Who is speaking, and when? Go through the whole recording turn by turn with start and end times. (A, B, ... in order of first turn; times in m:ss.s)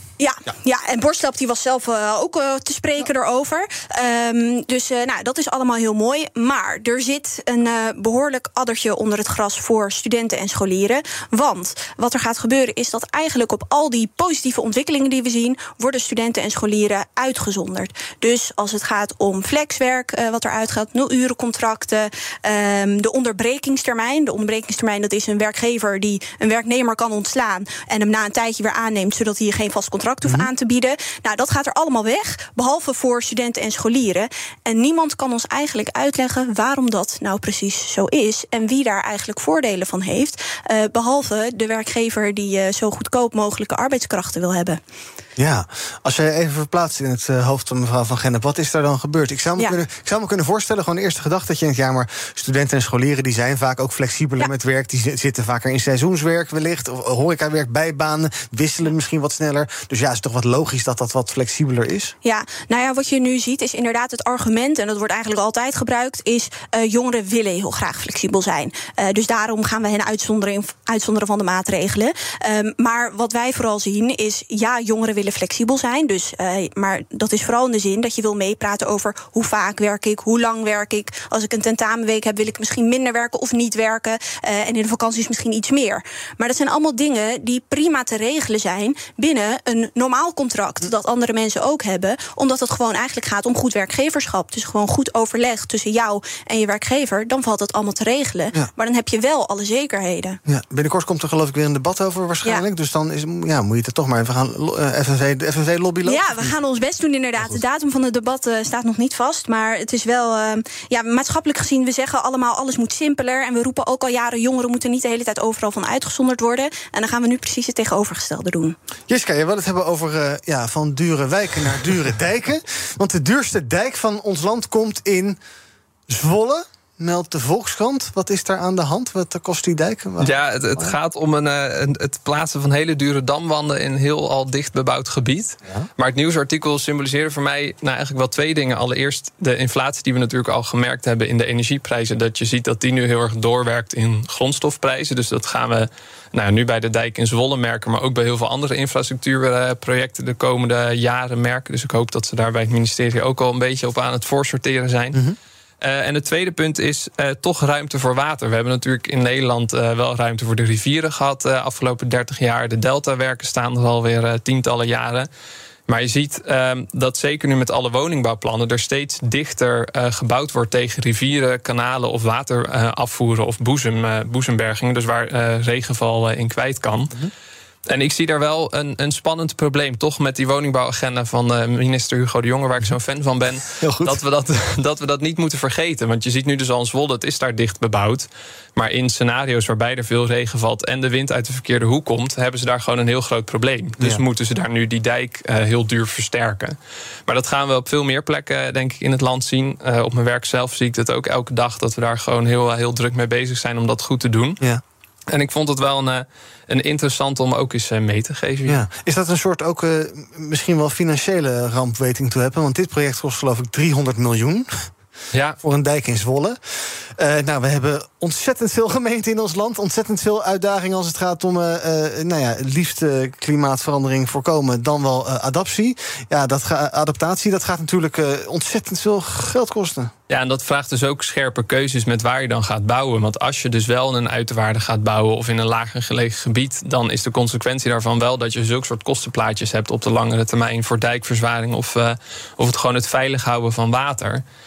0:00.2-0:44.8 A
0:30.2-0:30.5 B
0:45.4-1:02.2 B
1:02.2-1:40.4 A
1:40.5-1:46.5 B
1:46.0-1:58.8 A
1:59.1-2:05.4 B
2:06.1-2:11.0 B
2:10.2-2:35.2 C
2:35.8-2:45.3 C
2:45.9-2:57.1 C
2:57.9-3:24.6 C
3:03.8-3:04.2 B
3:25.3-3:28.8 C
3:28.7-3:34.7 B
3:35.6-3:50.1 B
3:50.3-4:04.4 C